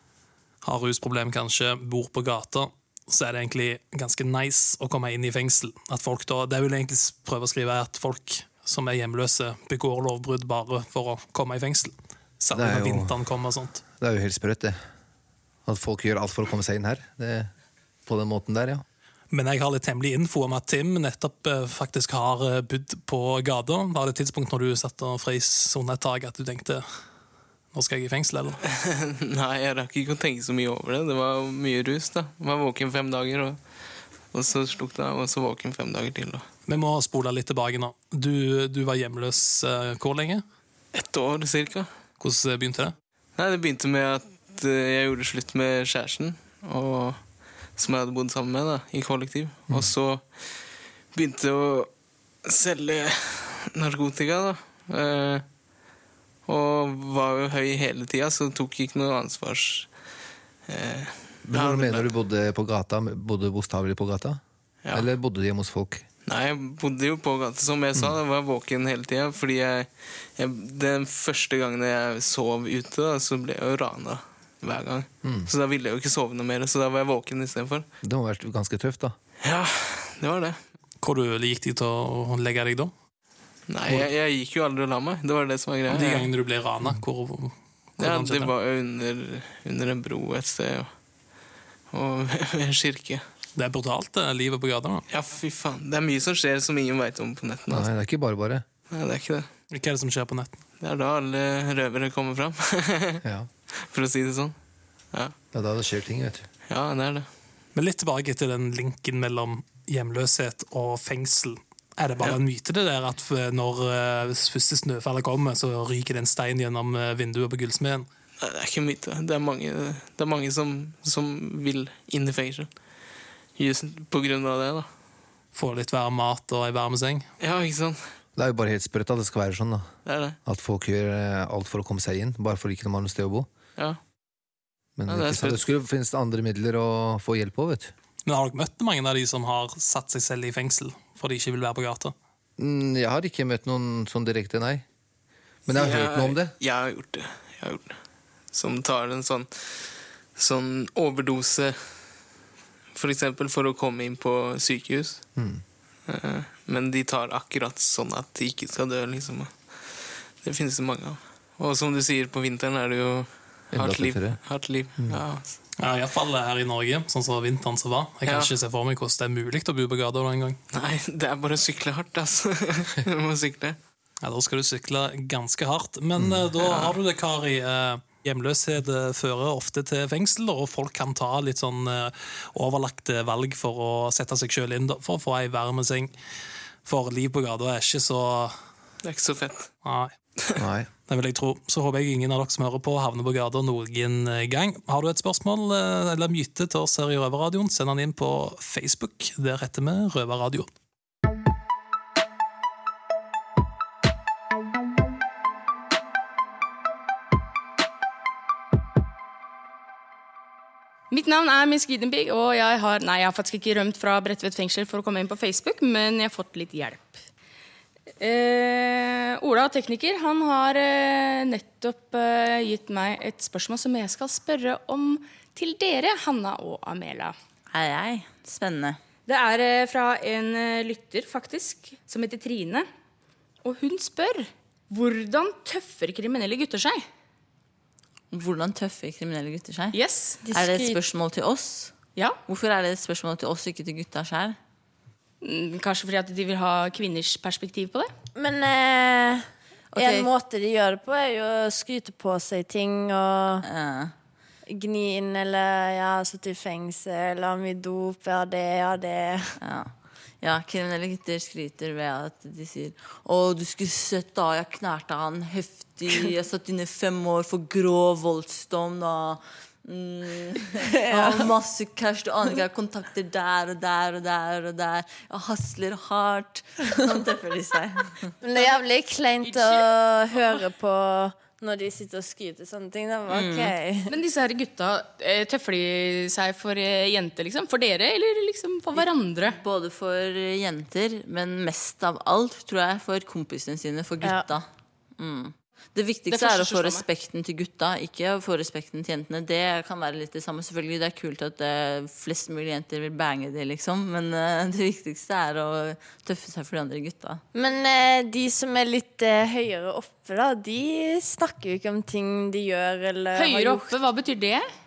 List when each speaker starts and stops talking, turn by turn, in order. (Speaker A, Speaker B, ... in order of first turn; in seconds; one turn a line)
Speaker A: 0.6-13.8
Speaker B: 12.5-13.1
Speaker B: 14.0-14.8
Speaker B: 15.7-17.5
Speaker B: 18.1-18.8
Speaker A: 19.3-26.9
Speaker A: 27.7-28.6
Speaker C: 28.7-33.6
Speaker C: 34.3-36.5
Speaker A: 36.6-40.4
Speaker C: 40.9-41.9
Speaker A: 42.2-42.9
Speaker C: 43.4-47.2
Speaker C: 47.7-50.6
Speaker C: 51.1-51.9
Speaker C: 52.4-55.4
Speaker C: 56.5-59.9
Speaker C: 60.7-62.1
Speaker B: 61.4-64.4
Speaker C: 64.8-65.1
Speaker B: 64.9-66.0
Speaker C: 66.2-77.9
Speaker B: 75.2-75.5
Speaker B: 78.0-79.1
Speaker C: 79.4-80.6
Speaker A: 81.0-82.9
Speaker C: 83.7-86.3
Speaker A: 85.9-88.5
Speaker C: 88.0-90.9
Speaker C: 91.9-93.2
Speaker A: 93.5-95.0
Speaker C: 95.1-97.9
Speaker B: 97.7-98.6
Speaker C: 98.9-99.5
Speaker A: 99.7-100.5
Speaker C: 100.8-104.5
Speaker B: 103.2-103.5
Speaker B: 105.5-106.5
Speaker C: 106.7-107.3
Speaker A: 107.7-118.1
Speaker C: 118.4-122.7
Speaker C: 123.5-124.9
Speaker A: 125.5-127.2
Speaker C: 127.4-128.0
Speaker B: 128.3-129.9
Speaker C: 130.0-130.4
Speaker B: 130.4-133.5
Speaker B: 135.0-137.9
Speaker C: 135.1-135.6
Speaker A: 138.2-142.1
Speaker B: 142.6-144.8
Speaker B: 145.7-146.6
Speaker C: 145.7-148.0
Speaker C: 148.5-152.2
Speaker C: 152.9-155.3
Speaker B: 155.3-155.6
Speaker C: 156.1-165.6
Speaker B: 163.7-164.4
Speaker B: 164.9-165.2
Speaker A: 165.8-170.6
Speaker C: 168.2-168.5
Speaker C: 170.7-173.8
Speaker A: 174.2-186.1
Speaker B: 176.2-176.4
Speaker C: 176.6-176.9
Speaker A: 186.8-188.6
Speaker C: 189.0-189.7
Speaker A: 189.8-190.1
Speaker B: 190.6-190.9
Speaker A: 191.1-200.7
Speaker D: 211.1-217.2
Speaker D: 218.2-227.3
Speaker E: 227.7-229.0
Speaker D: 229.3-232.9
Speaker D: 233.6-237.0
Speaker E: 238.3-239.9
Speaker D: 239.9-240.4
Speaker F: 240.4-241.0
Speaker E: 240.5-241.9
Speaker E: 242.5-244.6
Speaker D: 245.4-248.1
Speaker F: 248.3-253.6
Speaker E: 249.9-250.3
Speaker E: 253.6-254.1
Speaker F: 254.7-259.5
Speaker E: 259.6-278.3
Speaker F: 271.0-271.5
Speaker F: 278.4-284.1
Speaker D: 279.4-279.8
Speaker E: 283.3-283.7
Speaker D: 284.1-289.6
Speaker E: 288.9-294.7
Speaker E: 295.2-307.4
Speaker D: 296.3-297.0
Speaker F: 307.5-313.9
Speaker D: 313.3-314.7